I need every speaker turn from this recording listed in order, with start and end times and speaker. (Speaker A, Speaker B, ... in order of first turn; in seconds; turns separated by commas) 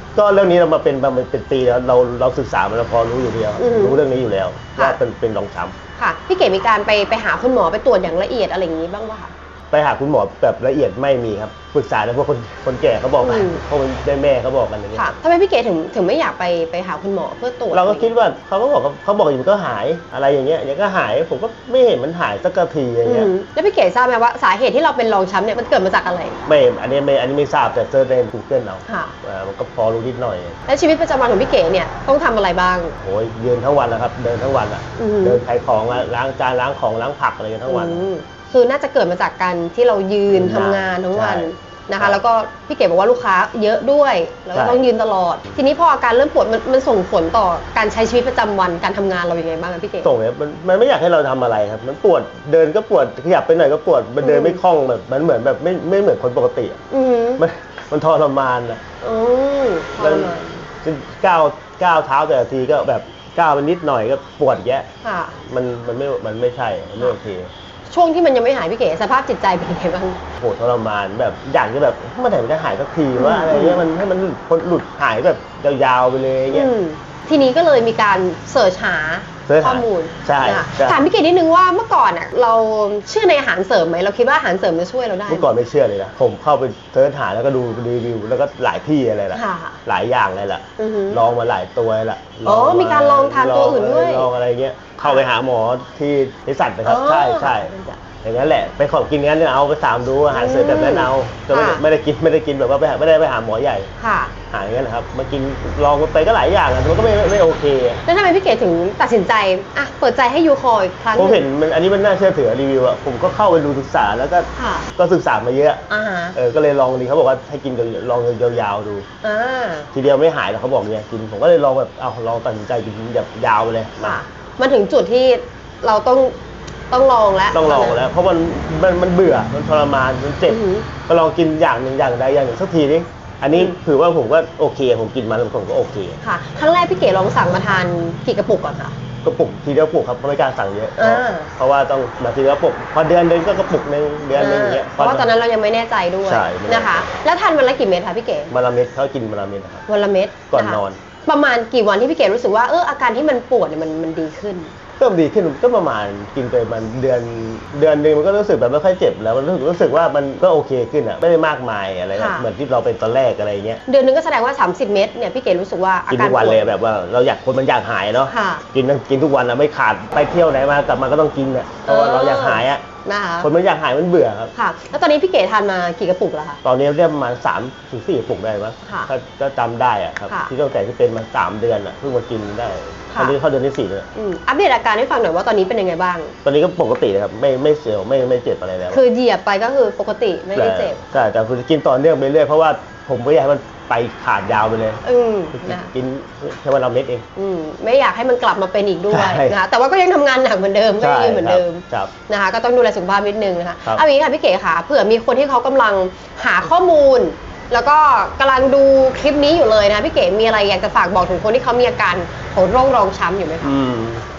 Speaker A: 0.2-5.8, Speaker B: 3.6-4.0, Speaker B: 6.0-9.3, Speaker A: 9.7-15.1, Speaker B: 13.2-13.6, Speaker B: 14.9-18.1, Speaker A: 17.7-23.3, Speaker B: 23.1-26.4, Speaker A: 26.5-30.6, Speaker B: 28.9-29.1, Speaker B: 30.7-33.0, Speaker A: 33.0-38.1, Speaker B: 35.0-35.4, Speaker B: 37.7-50.1, Speaker A: 40.3-42.2, Speaker A: 44.5-44.8, Speaker A: 50.0-56.8, Speaker B: 54.2-54.6, Speaker B: 56.9-57.4, Speaker A: 57.4-58.8, Speaker B: 59.0-60.6, Speaker A: 60.0-67.5, Speaker B: 65.0-65.4, Speaker B: 67.9-70.2, Speaker A: 70.4-76.7, Speaker B: 73.2-73.8, Speaker B: 76.5-85.5, Speaker A: 79.5-81.0, Speaker A: 85.3-103.9, Speaker B: 89.3-89.8, Speaker B: 90.8-91.2, Speaker B: 92.5-94.3, Speaker B: 95.0-95.2, Speaker B: 96.8-98.0, Speaker B: 100.3-101.8, Speaker B: 104.0-104.3, Speaker A: 104.5-108.0, Speaker B: 108.1-111.4, Speaker A: 111.2-115.8, Speaker B: 114.6-114.9, Speaker B: 115.9-116.4, Speaker A: 116.3-119.1, Speaker B: 119.2-119.9, Speaker A: 119.9-124.2, Speaker B: 124.0-126.3, Speaker B: 126.9-128.0, Speaker A: 127.5-136.2, Speaker B: 130.5-130.9, Speaker B: 136.2-139.0, Speaker A: 139.2-145.3, Speaker B: 141.0-141.5, Speaker B: 144.3-148.5, Speaker A: 146.2-147.1, Speaker A: 148.5-149.9, Speaker B: 149.9-154.7, Speaker A: 150.5-151.0, Speaker A: 155.0-163.8, Speaker B: 162.2-162.5, Speaker B: 163.9-166.7, Speaker A: 166.1-172.8, Speaker B: 168.3-168.6, Speaker B: 171.9-173.5, Speaker A: 173.4-174.5, Speaker B: 174.6-176.6, Speaker A: 176.6-184.1, Speaker B: 178.8-179.1, Speaker B: 184.2-186.3, Speaker A: 186.4-189.0, Speaker B: 188.9-191.0, Speaker A: 190.6-195.0, Speaker B: 195.0-195.9, Speaker A: 195.5-197.2, Speaker B: 197.4-213.7, Speaker A: 199.1-199.6, Speaker A: 201.0-202.1, Speaker A: 213.6-214.2